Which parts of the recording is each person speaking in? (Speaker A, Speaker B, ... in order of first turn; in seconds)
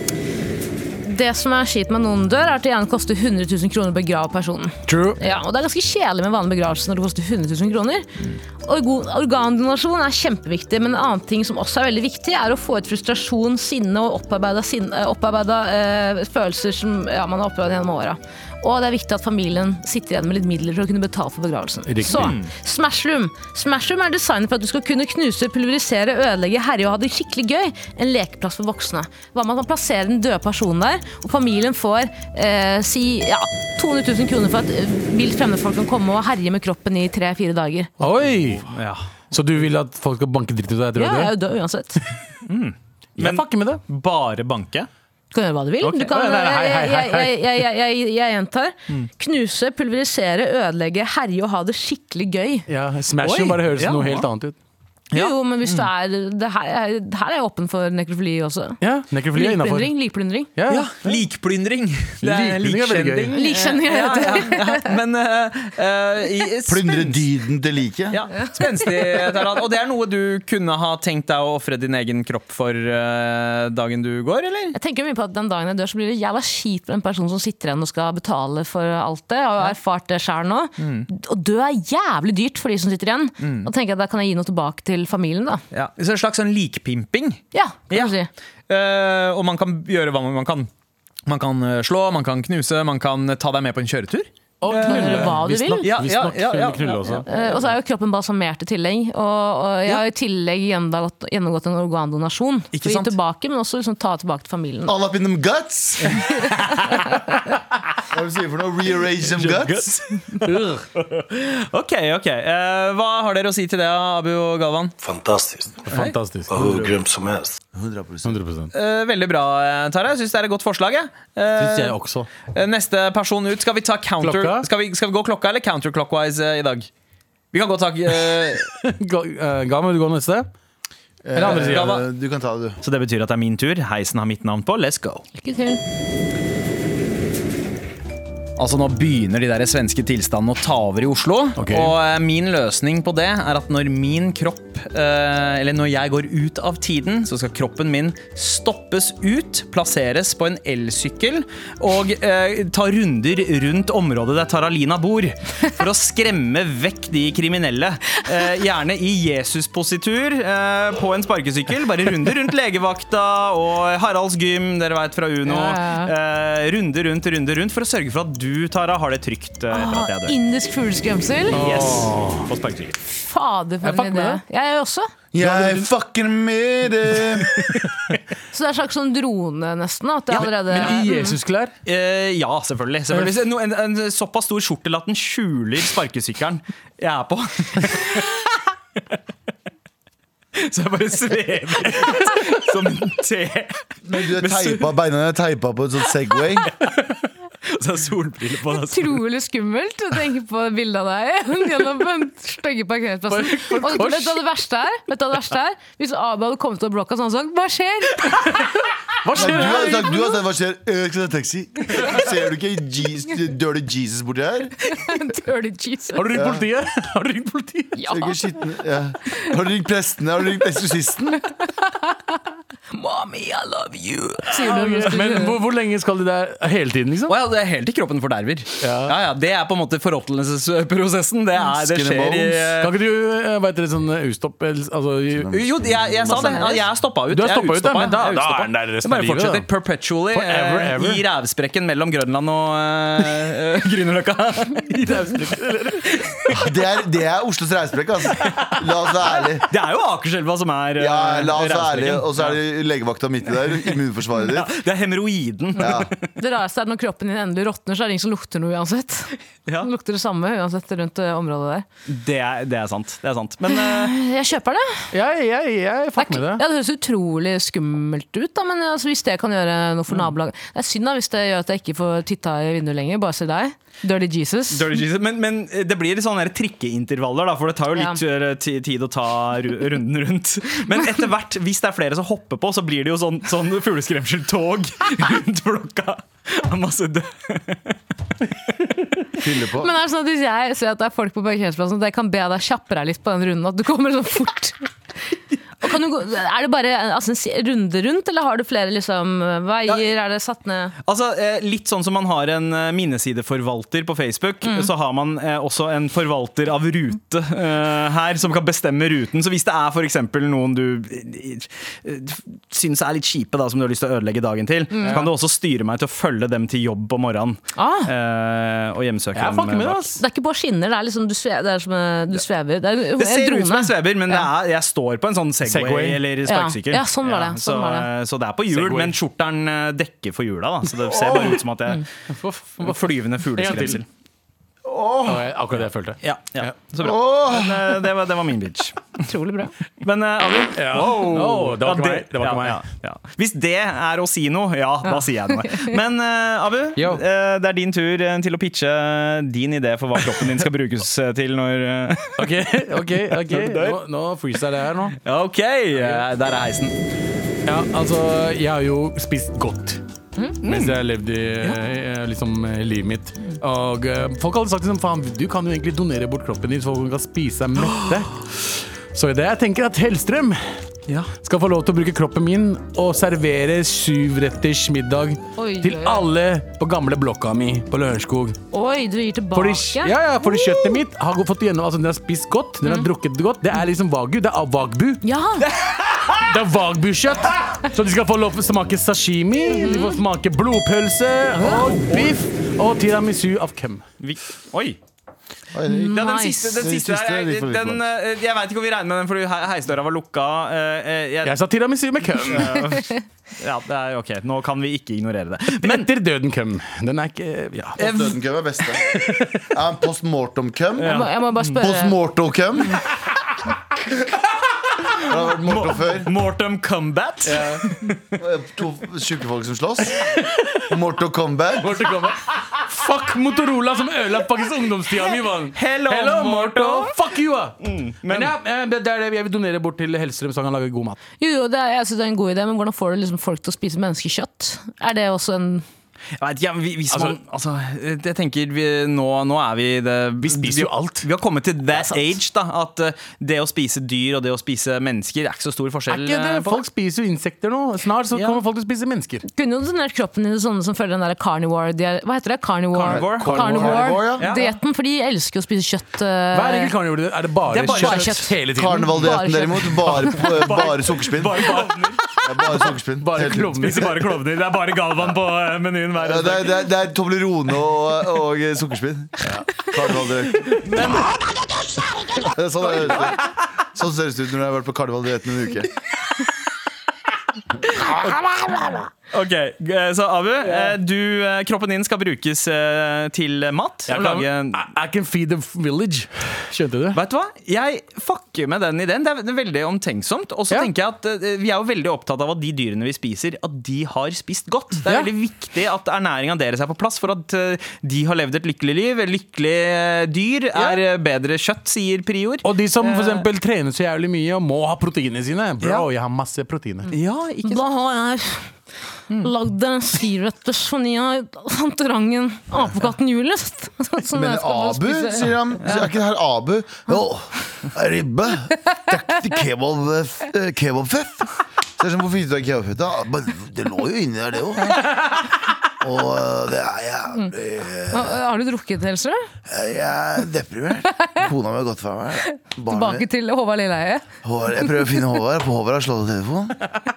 Speaker A: 1.0-8.1, 8.6-37.9, 41.0-42.0, 45.3-52.7, 55.1-58.8, 59.3-60.5, 63.3-64.9, 74.7-85.6, 87.5-88.3, 94.7-95.9, 97.3-105.0, 135.4-135.8, 165.5-166.1, 169.7-171.6, 173.1-175.1, 178.5-181.4, 198.8-208.6, 209.4-210.3, 214.9-216.3, 217.9-218.3, 221.9-222.1, 222.9-225.6, 256.4-261.9, 263.7-265.1, 266.2-275.0, 277.9-278.2, 289.8-294.9, 295.8-300.9, 304.6-304.9, 314.9-315.2, 317.8-318.1, 320.2-324.5, 326.5-328.1, 339.2-339.7, 345.1-345.9, 375.6-376.3, 378.7-381.0, 382.8-383.1, 385.2-385.7, 389.7-390.2, 395.9-396.6, 402.9-403.2, 411.0-412.2, 431.4-435.9, 449.5-456.9, 457.9-460.4, 507.6-508.8, 509.4-515.9, 528.1-529.5, 532.9-534.2
Speaker B: 4.9-5.2, 21.9-22.4, 38.0-38.7, 39.3-41.3, 43.2-43.8, 46.1-47.3, 52.7-54.6, 58.8-59.9, 60.6-61.2, 62.2-63.4, 94.6-97.3, 110.3-110.9, 115.9-116.7, 118.2-118.7, 121.6-122.3, 124.2-124.7, 128.2-130.5, 131.3-132.0, 141.6-142.0, 171.5-172.5, 173.8-174.4, 175.4-175.9, 180.4-181.7, 203.3-204.4, 209.2-210.2, 216.2-218.0, 224.5-227.3, 228.8-229.2, 232.8-236.6, 237.3-239.7, 240.3-241.2, 244.9-246.2, 265.1-266.6, 315.0-315.3, 319.4-320.2, 325.6-326.2, 328.7-329.2, 331.2-331.5, 332.3-334.0, 335.2-336.7, 340.8-342.8, 347.0-347.2, 350.2-350.5, 352.4-355.2, 355.9-356.2, 357.7-360.0, 360.6-370.7, 371.4-378.6, 379.5-385.2, 386.5-394.0, 401.4-403.0, 405.8-408.2, 409.1-409.6, 417.4-417.9, 421.8-431.2, 437.1-437.4, 440.4-441.3, 441.9-442.2, 446.1-449.4, 453.4-454.1, 456.5-459.5, 461.6-461.9, 463.2-464.2, 478.7-478.9, 480.6-480.9, 484.1-487.2, 500.8-501.0, 502.6-507.1
Speaker C: 22.1-22.5, 38.6-39.1, 42.5-44.9, 45.8-46.4, 53.2-54.3, 55.1-55.9, 60.7-67.2, 68.1-74.8, 80.8-81.1, 83.4-83.7, 85.7-88.2, 88.7-90.7, 91.2-97.3, 102.7-103.2, 109.5-115.0, 115.9-116.9, 118.7-122.0, 122.5-126.9, 127.5-128.7, 131.4-132.1, 132.8-135.2, 138.6-170.3, 171.6-173.0, 180.4-181.1, 181.8-188.4, 190.6-194.9, 197.7-199.2, 227.3-232.9, 235.5-245.1, 248.4-248.7, 249.4-252.6, 253.9-256.3, 262.1-264.1, 274.7-288.0, 301.0-320.1, 323.2-332.1, 332.8-334.1, 336.2-339.2, 340.0-352.5, 353.3-354.0, 355.2-356.9, 360.6-361.0, 385.7-386.4, 391.7-392.3, 394.2-395.0, 396.1-401.6, 402.3-406.1, 407.9-408.4, 411.0-411.8, 415.6-418.4, 425.7-427.1, 427.8-428.5, 436.4-446.8, 448.3-448.6, 453.0-453.8, 454.4-454.8, 457.7-458.5, 460.4-462.2, 463.8-466.9, 470.6-471.4, 479.3-484.8, 487.1-503.5, 505.8-506.1, 507.1-507.9
Speaker D: 66.7-68.2, 104.9-106.2, 108.1-110.0, 117.7-118.4, 131.2-132.8, 175.3-177.7, 194.0-196.7, 209.3-214.8, 216.3-216.7, 218.1-221.4, 231.7-232.7, 235.3-236.7, 246.5-249.7, 251.0-254.7, 255.8-256.1, 289.4-289.9, 334.9-335.5, 337.0-338.0, 395.7-398.0, 408.0-411.2, 411.8-413.0, 415.2-416.3, 418.4-420.2, 420.9-422.1, 453.1-454.5, 458.7-461.8, 462.4-463.9, 466.2-471.0, 472.3-475.9, 514.3-525.4, 526.0-528.4, 529.7-533.2, 534.4-536.8
Speaker E: 115.0-115.8, 116.5-117.6